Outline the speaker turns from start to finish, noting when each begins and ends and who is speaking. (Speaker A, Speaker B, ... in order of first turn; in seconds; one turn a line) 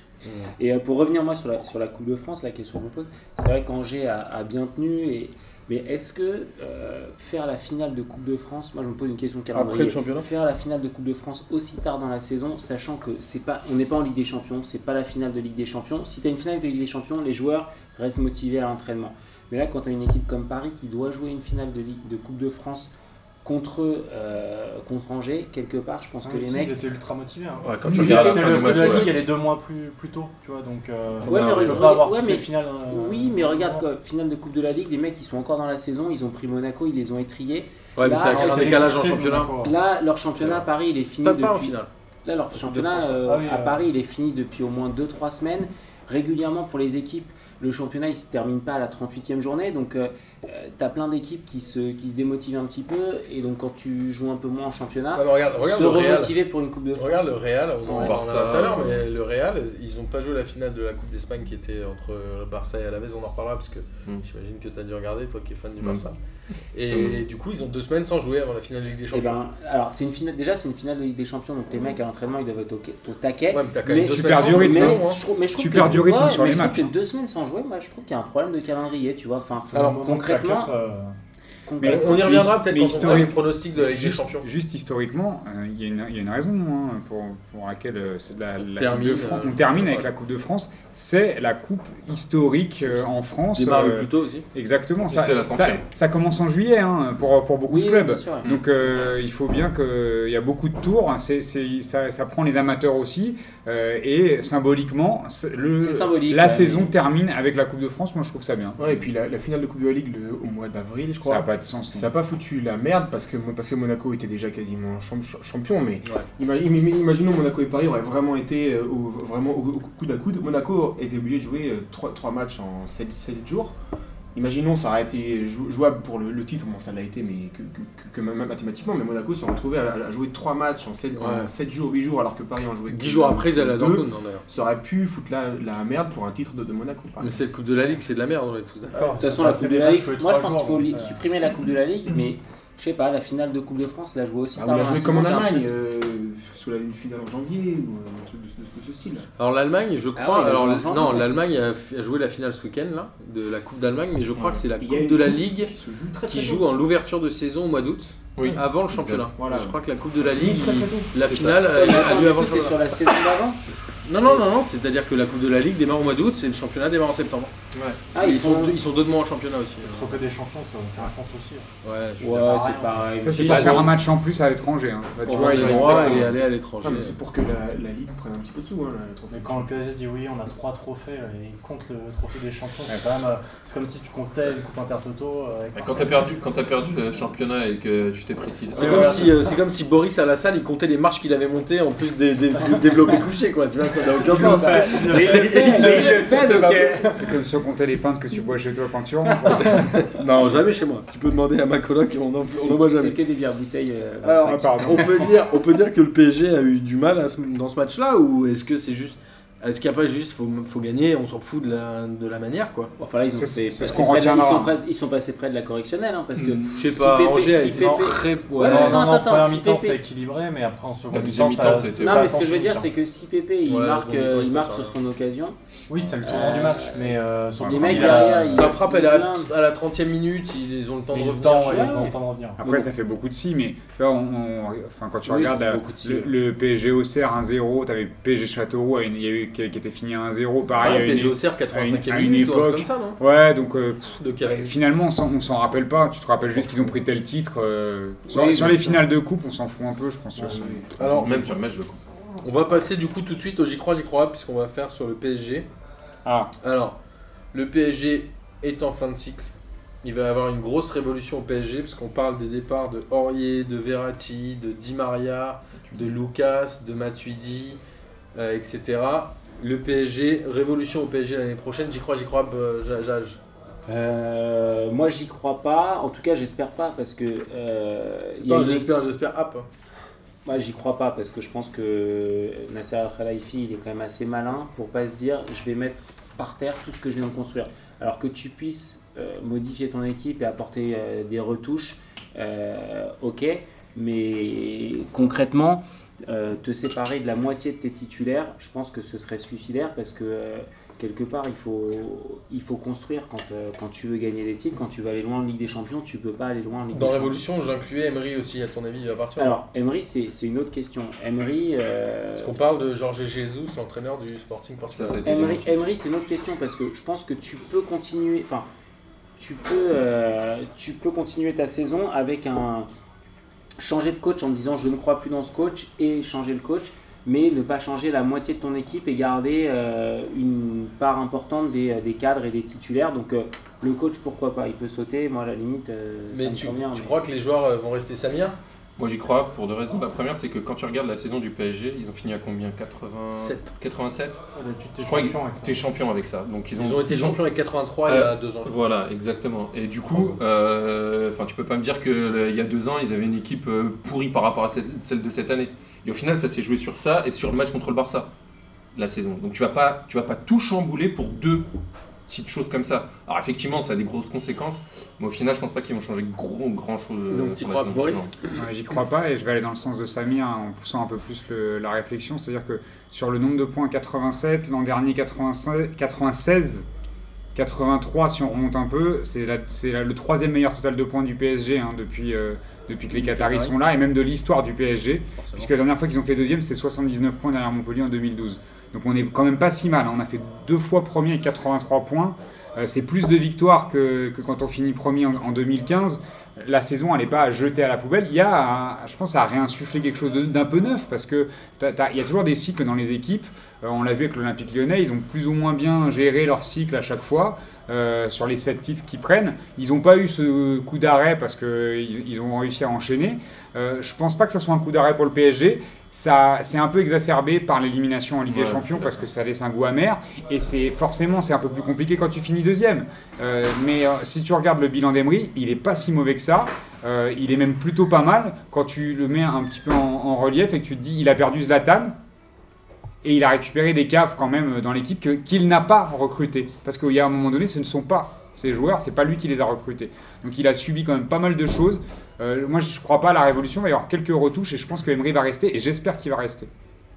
Speaker A: 0.2-0.5
Speaker B: 0.6-22.9
Speaker A: 9.5-10.3
Speaker B: 23.4-26.8
Speaker C: 26.2-33.9
Speaker D: 27.6-29.2
Speaker B: 27.9-29.3
Speaker A: 31.2-31.9
Speaker B: 31.2-39.0
Speaker A: 38.0-39.5
Speaker C: 38.3-39.8
Speaker B: 39.6-58.2
Speaker A: 41.2-41.9
Speaker A: 42.5-43.1
Speaker C: 43.2-43.8
Speaker A: 55.1-56.4
Speaker A: 57.0-66.2
Speaker D: 58.0-59.0
Speaker D: 65.8-66.0
Speaker A: 66.7-69.4
Speaker D: 66.8-67.2
Speaker B: 69.1-80.8
Speaker A: 73.5-75.2
Speaker E: 74.1-76.9
Speaker C: 79.6-81.2
Speaker B: 81.7-82.3
Speaker E: 81.8-108.8
Speaker A: 81.8-84.5
Speaker A: 88.8-90.1
Speaker A: 92.9-94.5
Speaker D: 95.1-95.8
Speaker B: 97.7-98.6
Speaker B: 105.8-106.9
Speaker F: 108.8-123.8
Speaker E: 111.2-112.1
Speaker F: 124.3-137.4
Speaker A: 131.1-131.5
Speaker A: 132.9-134.5
Speaker A: 137.2-139.6
Speaker C: 138.9-141.3
Speaker B: 139.2-145.7
Speaker F: 144.6-149.3
Speaker A: 149.4-155.7
Speaker B: 150.2-151.4
Speaker F: 154.8-156.7
Speaker A: 156.3-162.9
Speaker D: 158.4-159.3
Speaker F: 159.2-161.2
Speaker D: 161.3-161.7
Speaker B: 161.7-164.4
Speaker A: 164.1-167.5
Speaker B: 168.1-168.8
Speaker A: 168.2-170.2
Speaker C: 169.8-171.7
Speaker A: 171.8-172.6
Speaker B: 172.2-173.9
Speaker C: 172.3-173.1
Speaker E: 173.2-176.4
Speaker A: 173.4-173.9
Speaker A: 175.2-177.2
Speaker D: 175.3-176.4
Speaker F: 176.8-179.7
Speaker C: 179.3-186.3
Speaker E: 182.9-183.2
Speaker D: 185.7-189.4
Speaker C: 188.7-189.5
Speaker A: 188.8-197.2
Speaker C: 194.1-196.8
Speaker B: 194.3-197.1
Speaker E: 194.3-194.8
Speaker E: 197.1-200.0
Speaker A: 199.4-203.2
Speaker B: 202.5-205.0
Speaker A: 204.2-212.9
Speaker E: 204.4-205.3
Speaker B: 213.0-220.0
Speaker E: 213.4-214.7
Speaker D: 216.4-216.8
Speaker A: 216.8-219.1
Speaker C: 217.8-222.9
Speaker D: 221.1-222.4
Speaker B: 222.0-225.6
Speaker A: 223.7-224.9
Speaker C: 225.9-228.8
Speaker B: 226.2-229.5
Speaker D: 227.7-228.1
Speaker A: 227.9-232.1
Speaker C: 231.1-232.6
Speaker B: 231.7-232.2
Speaker E: 232.6-251.4
Speaker B: 235.3-236.3
Speaker A: 240.7-243.2
Speaker A: 244.2-244.8
Speaker A: 246.6-246.9
Speaker A: 248.3-249.0
Speaker A: 251.0-251.4
Speaker D: 251.1-252.0
Speaker A: 252.4-255.7
Speaker E: 256.2-256.5
Speaker A: 256.6-257.0
Speaker A: 257.5-259.5
Speaker A: 260.0-267.8
Speaker A: 268.4-273.4
Speaker B: 273.9-278.9
Speaker A: 278.4-279.7
Speaker B: 280.5-307.4
Speaker A: 306.9-309.6
Speaker B: 309.4-312.5
Speaker A: 312.4-315.2
Speaker D: 314.9-315.9
Speaker B: 315.2-318.7
Speaker B: 319.4-322.9
Speaker B: 323.8-337.1
Speaker A: 336.3-338.6
Speaker D: 339.0-344.4
Speaker A: 343.4-343.7
Speaker C: 344.6-345.8
Speaker D: 345.0-347.4
Speaker A: 346.8-348.8
Speaker D: 348.1-358.3
Speaker A: 350.1-350.4
Speaker D: 358.9-361.7
Speaker D: 362.3-368.3
Speaker A: 367.3-368.5
Speaker E: 368.6-376.9
Speaker E: 377.6-432.2
Speaker C: 383.2-383.7
Speaker D: 418.5-419.2
Speaker E: 433.2-446.7